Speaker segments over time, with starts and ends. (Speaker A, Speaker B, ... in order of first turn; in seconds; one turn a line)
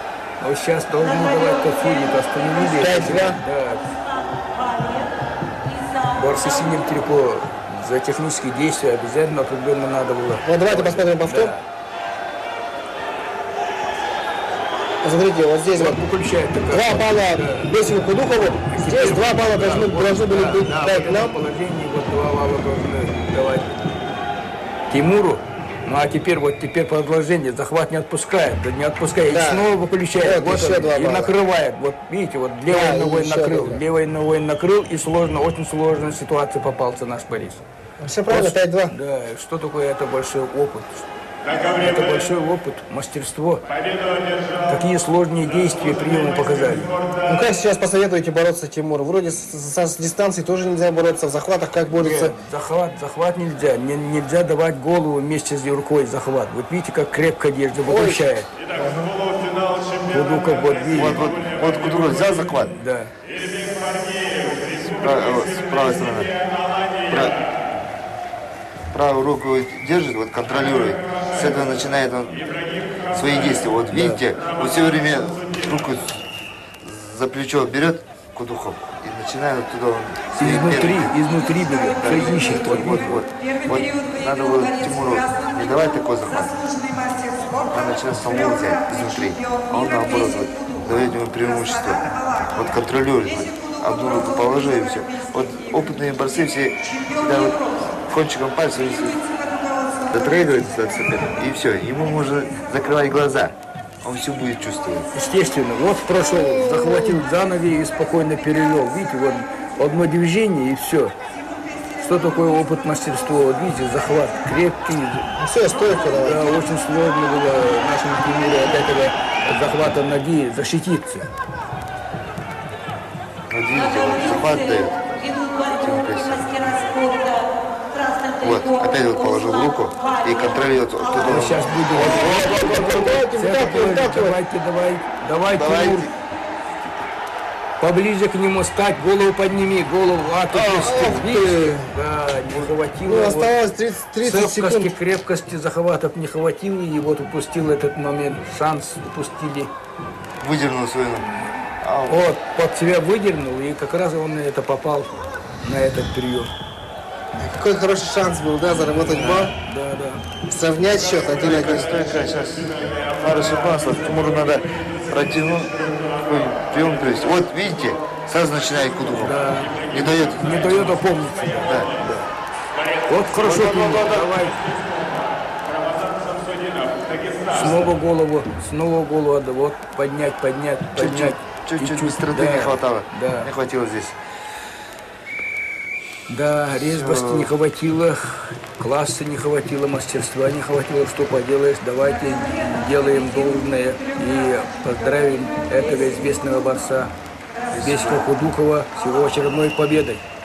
Speaker A: 0.4-3.9
Speaker B: 2.6-3.4
Speaker A: 6.1-11.6
Speaker B: 10.4-11.5
Speaker B: 15.0-16.0
Speaker A: 15.7-17.7
Speaker B: 16.7-21.3
Speaker A: 18.7-23.7
Speaker A: 24.9-37.6
Speaker B: 29.3-31.3
Speaker B: 32.7-33.8
Speaker B: 38.0-38.9
Speaker A: 38.3-43.6
Speaker A: 44.6-47.0
Speaker B: 47.2-52.4
Speaker A: 51.9-58.5
Speaker B: 57.9-58.2
Speaker B: 58.7-59.2
Speaker A: 60.1-61.2
Speaker C: 60.9-62.7
Speaker A: 62.7-63.1
Speaker C: 64.7-66.4
Speaker C: 67.1-67.4
Speaker C: 68.9-76.2
Speaker A: 73.9-74.2
Speaker C: 76.8-81.2
Speaker A: 80.4-83.2
Speaker C: 82.0-86.6
Speaker C: 87.7-99.2
Speaker C: 100.1-105.1
Speaker A: 105.1-111.1
Speaker B: 106.4-107.2
Speaker A: 112.0-115.3
Speaker B: 115.4-116.5
Speaker A: 116.1-121.3
Speaker C: 123.5-127.2
Speaker C: 128.4-133.2
Speaker A: 131.2-136.1
Speaker B: 131.9-134.4
Speaker C: 135.5-136.1
Speaker A: 137.8-143.6
Speaker B: 140.6-142.0
Speaker B: 143.1-144.9
Speaker A: 144.2-149.7
Speaker C: 150.4-152.2
Speaker A: 152.1-156.5
Speaker B: 157.4-159.5
Speaker A: 158.9-160.2
Speaker B: 160.5-161.9
Speaker C: 161.5-171.0
Speaker A: 169.2-172.3
Speaker C: 171.6-171.9
Speaker A: 173.1-174.7
Speaker C: 173.4-174.3
Speaker A: 177.5-183.5
Speaker C: 180.9-184.2
Speaker A: 186.3-197.1
Speaker C: 186.7-187.5
Speaker C: 197.7-198.2
Speaker A: 197.7-200.2